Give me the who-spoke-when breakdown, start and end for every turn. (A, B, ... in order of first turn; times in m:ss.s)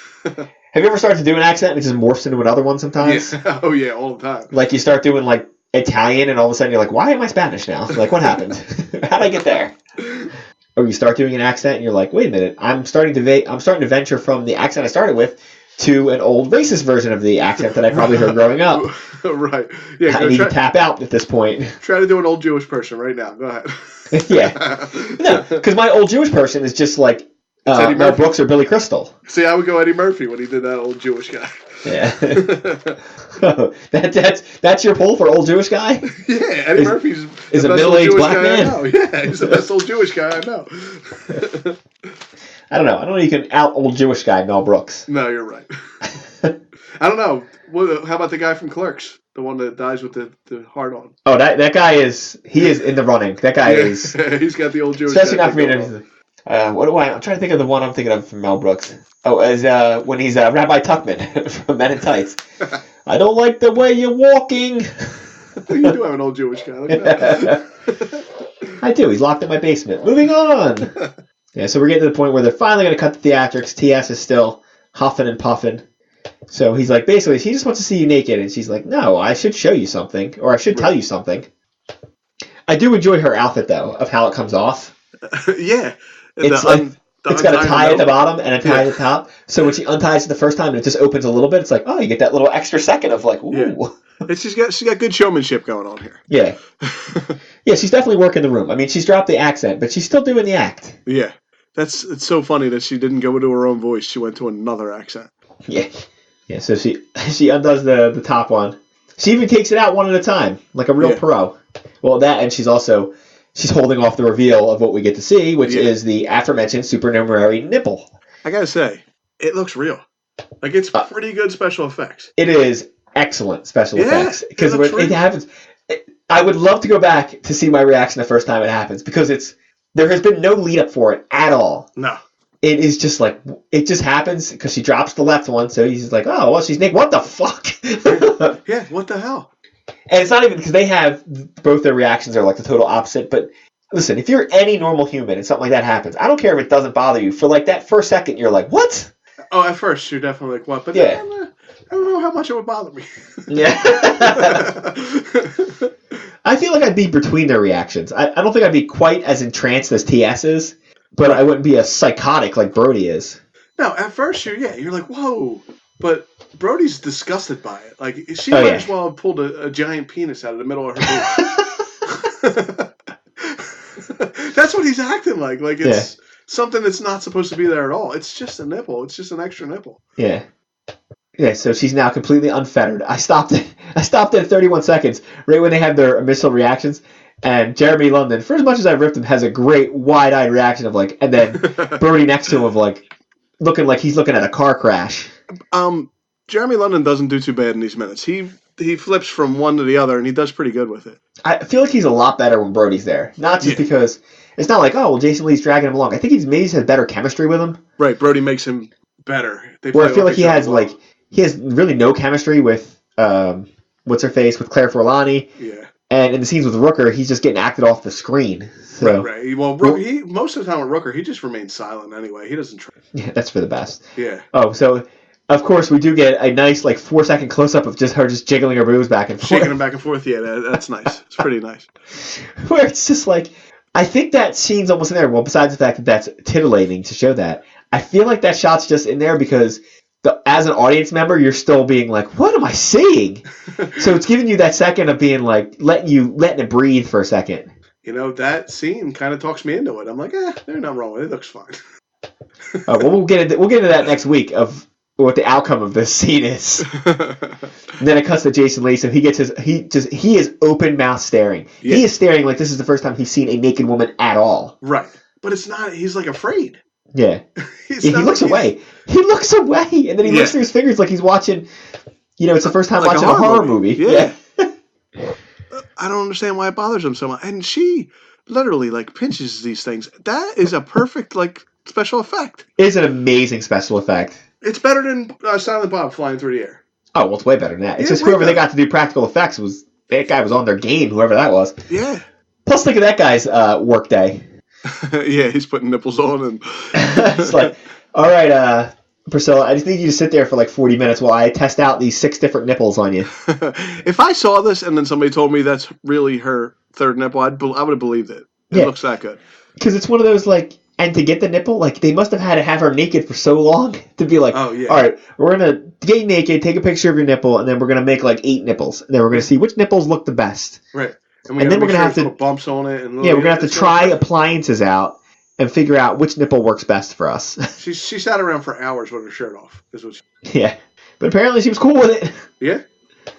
0:00.7-0:03.4 A
0:03.0-0:04.5 B
0:04.5-0:09.7 A
0:07.9-0:08.4 B
0:10.0-0:10.3 B
0:10.8-0:18.9 A
0:17.9-0:20.6 B
0:20.1-0:21.8 A
0:21.8-0:25.6 B
0:24.1-0:24.6 A
0:25.2-0:29.1 A
0:27.7-0:28.3 B
0:29.3-0:33.0 B
0:31.8-0:32.5 A
0:33.4-0:36.0 A
0:36.1-0:41.8 B
0:37.5-0:38.8 A
0:42.7-0:45.1 A
0:45.1-0:45.7 B
0:47.0-0:51.1 B
0:51.2-0:54.1 A
0:53.6-0:55.9 B
0:55.1-1:02.4 A
1:03.0-1:05.2 A
1:05.6-1:08.2 B
1:06.9-1:07.6 A
1:08.8-1:10.9 A
1:11.5-1:15.8 A
1:16.5-1:21.5 A
1:22.7-1:24.9 A
1:25.3-1:29.0 B
1:26.4-1:34.0 A
1:33.5-1:36.2 B
1:36.3-1:36.6 A
1:36.8-1:37.4 B
1:37.6-1:41.0 A
1:41.0-1:45.3 B
1:45.7-1:45.9 A
1:46.5-1:58.1 A
1:55.6-1:55.9 B
1:58.4-2:00.0 B
2:00.6-2:02.3 B
2:02.4-2:11.9 A
2:03.9-2:05.2 B
2:12.6-2:18.6 A
2:18.0-2:19.5 B
2:20.1-2:29.1 A
2:29.5-2:35.9 B
2:30.9-2:31.2 A
2:33.5-2:34.7 A
2:36.4-2:43.4 A
2:41.2-2:41.5 B
2:43.8-3:00.0 B
2:48.5-2:48.9 A
2:51.0-2:51.7 A
2:55.8-2:56.1 A
3:00.2-3:00.4 A
3:01.4-3:13.0 A
3:11.5-3:11.9 B
3:13.6-3:15.3 A
3:15.7-3:21.2 B
3:21.4-3:27.8 A
3:28.0-3:30.9 B
3:29.9-3:35.5 A
3:35.6-3:35.9 B
3:36.1-3:39.3 A
3:39.0-3:42.9 B
3:43.1-3:49.8 A
3:44.2-3:44.4 B
3:49.4-3:51.9 B
3:52.2-4:03.4 A
4:03.7-4:04.0 B
4:04.0-4:07.7 A
4:08.0-4:11.8 B
4:12.9-4:16.9 A
4:16.9-4:17.7 B
4:18.0-4:24.7 A
4:24.8-4:26.8 B
4:27.1-4:27.4 A
4:27.8-4:28.7 B
4:28.0-4:31.7 A
4:30.2-4:30.6 B
4:32.4-4:34.7 A
4:32.6-4:34.3 B
4:35.7-4:42.6 B
4:42.8-4:44.4 A
4:44.6-4:46.8 B
4:47.1-4:51.7 A
4:48.0-4:48.6 B
4:51.9-4:52.2 B
4:52.6-4:54.4 A
4:54.9-4:57.7 B
4:57.0-5:03.3 A
5:03.4-5:09.4 B
5:09.8-5:20.8 A
5:14.5-5:15.1 B
5:20.9-5:24.2 B
5:21.6-5:22.3 A
5:23.2-5:27.7 A
5:27.8-5:30.2 B
5:30.4-5:32.4 A